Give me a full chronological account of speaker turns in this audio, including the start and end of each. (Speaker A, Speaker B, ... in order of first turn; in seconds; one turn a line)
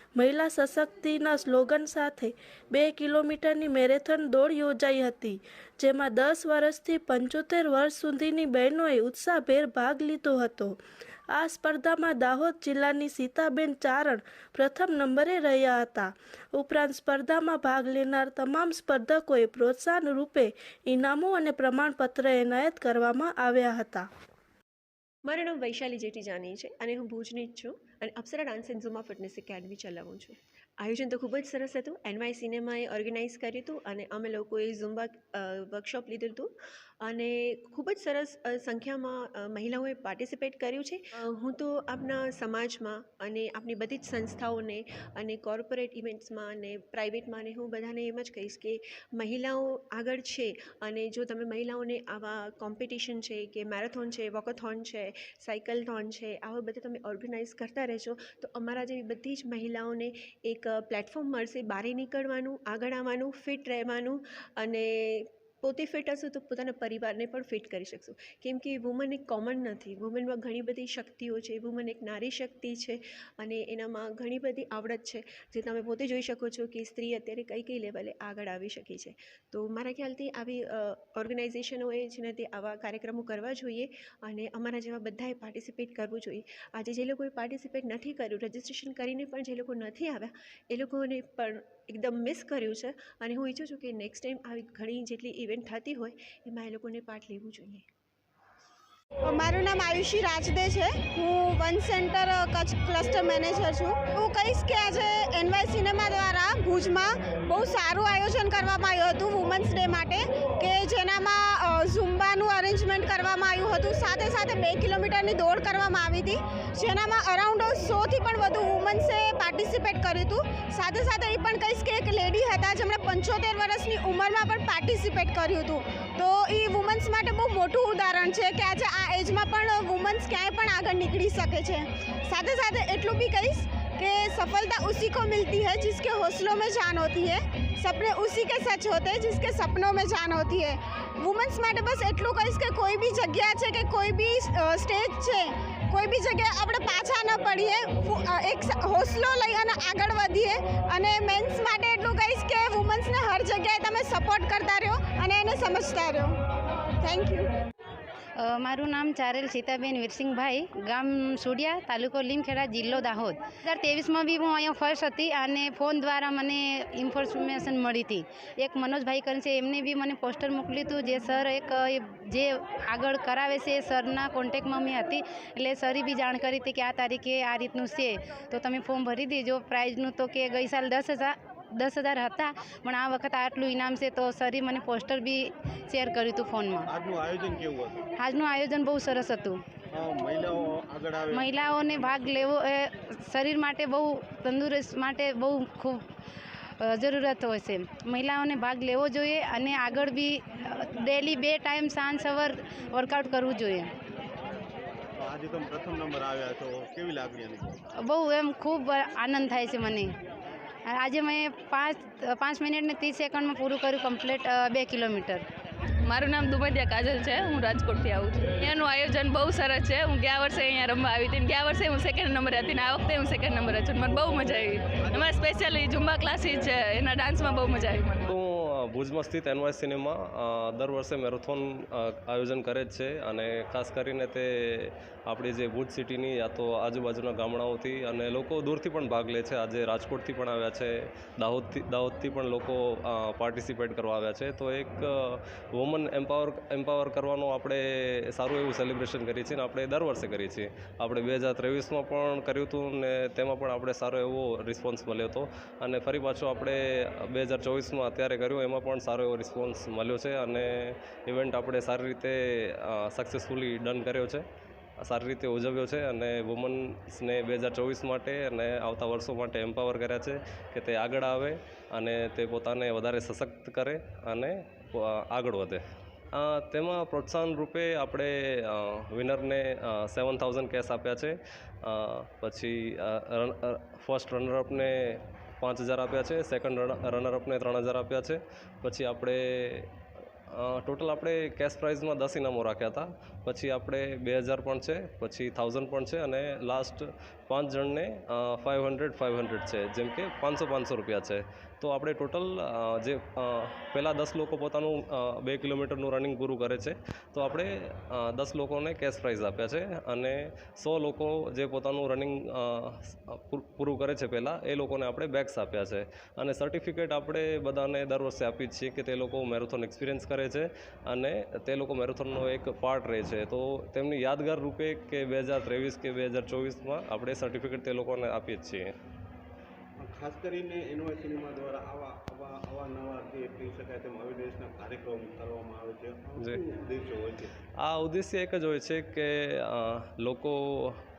Speaker A: 0.2-10.8
Speaker A: 11.3-24.1
Speaker B: 25.3-36.5
Speaker B: 37.0-97.9
Speaker C: 99.2-156.4
Speaker C: 157.0-157.5
Speaker D: 158.4-186.9
Speaker E: 186.9-188.0
Speaker D: 188.2-189.6
Speaker E: 189.9-192.6
Speaker D: 191.3-196.0
Speaker D: 196.8-203.9
Speaker E: 205.2-207.8
Speaker D: 208.0-210.1
Speaker D: 210.9-215.4
Speaker F: 216.0-228.3
Speaker G: 228.3-264.4
Speaker G: 265.0-275.8
Speaker G: 276.4-289.9
Speaker G: 290.5-328.9
Speaker E: 330.0-337.5
Speaker G: 337.8-341.0